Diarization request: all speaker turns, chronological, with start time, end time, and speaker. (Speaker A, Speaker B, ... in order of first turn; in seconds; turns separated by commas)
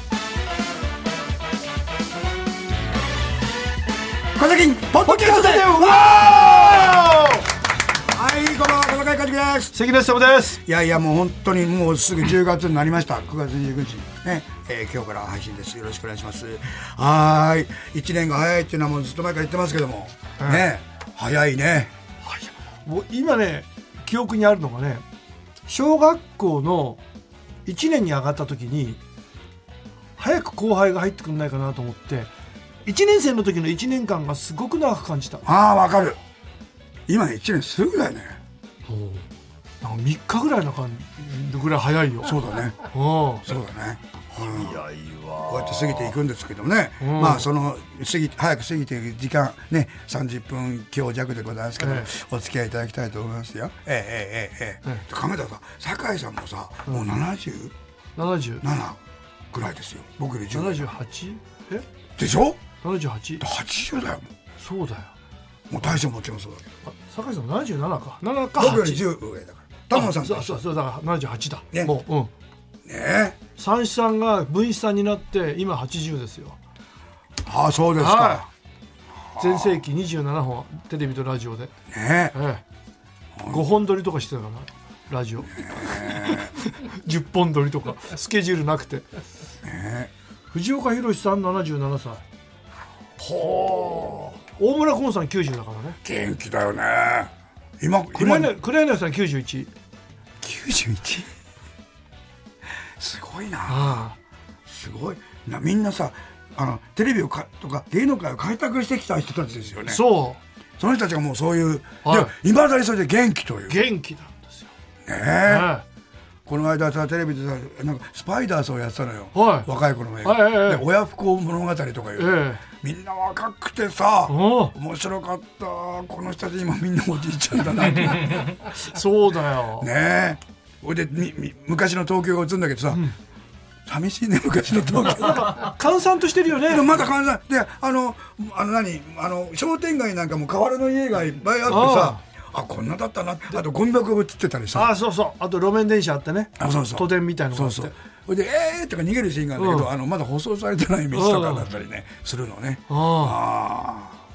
Speaker A: 4.3-7.2, Speaker B: 5.0-7.5, Speaker A: 8.1-9.8, Speaker B: 9.7-10.6, Speaker A: 10.6-21.9, Speaker B: 20.4-20.7, Speaker B: 22.2-25.1, Speaker B: 25.7-27.0, Speaker B: 27.7-29.0, Speaker B: 30.2-32.3, Speaker B: 32.9-35.5, Speaker A: 35.4-36.2, Speaker A: 37.1-38.4, Speaker B: 38.9-39.3, Speaker B: 39.8-42.3, Speaker A: 42.2-42.8, Speaker B: 42.9-43.5, Speaker A: 43.4-44.8, Speaker B: 44.3-46.2, Speaker A: 45.5-57.7, Speaker B: 47.0-47.5, Speaker B: 51.8-52.1, Speaker B: 58.2-58.6, Speaker A: 58.6-60.9, Speaker B: 60.5-61.9, Speaker A: 62.2-62.6, Speaker B: 62.8-63.5, Speaker A: 63.4-64.3, Speaker B: 64.6-65.1, Speaker A: 65.7-66.8, Speaker B: 66.8-69.0, Speaker A: 68.6-70.6, Speaker B: 69.9-72.3, Speaker A: 71.7-72.0, Speaker A: 72.8-73.4, Speaker B: 73.6-76.6, Speaker A: 77.4-78.5, Speaker B: 78.0-78.5, Speaker A: 79.3-79.8, Speaker B: 79.4-81.7, Speaker A: 81.9-82.4, Speaker B: 82.3-82.6, Speaker A: 83.4-83.7, Speaker B: 83.5-89.1, Speaker A: 85.5-86.5, Speaker A: 89.6-90.1, Speaker B: 90.5-92.2, Speaker B: 93.2-96.0, Speaker A: 96.0-98.6, Speaker B: 98.1-99.7, Speaker A: 100.4-101.3, Speaker A: 103.0-104.0, Speaker B: 103.7-104.2, Speaker A: 104.7-110.2, Speaker B: 109.9-110.4, Speaker A: 110.8-113.9, Speaker B: 112.0-112.3, Speaker B: 113.7-114.7, Speaker A: 115.0-115.7, Speaker B: 115.5-115.8, Speaker A: 116.5-128.5, Speaker B: 119.3-119.7, Speaker B: 120.2-120.8, Speaker B: 122.2-122.6, Speaker B: 124.3-124.8, Speaker B: 128.8-129.9, Speaker A: 129.8-133.1, Speaker A: 133.9-135.7, Speaker B: 135.1-136.9, Speaker A: 136.6-144.9, Speaker B: 141.7-142.2, Speaker B: 144.7-147.9, Speaker A: 146.6-154.2, Speaker B: 149.6-149.9, Speaker B: 151.1-151.7, Speaker B: 152.9-153.4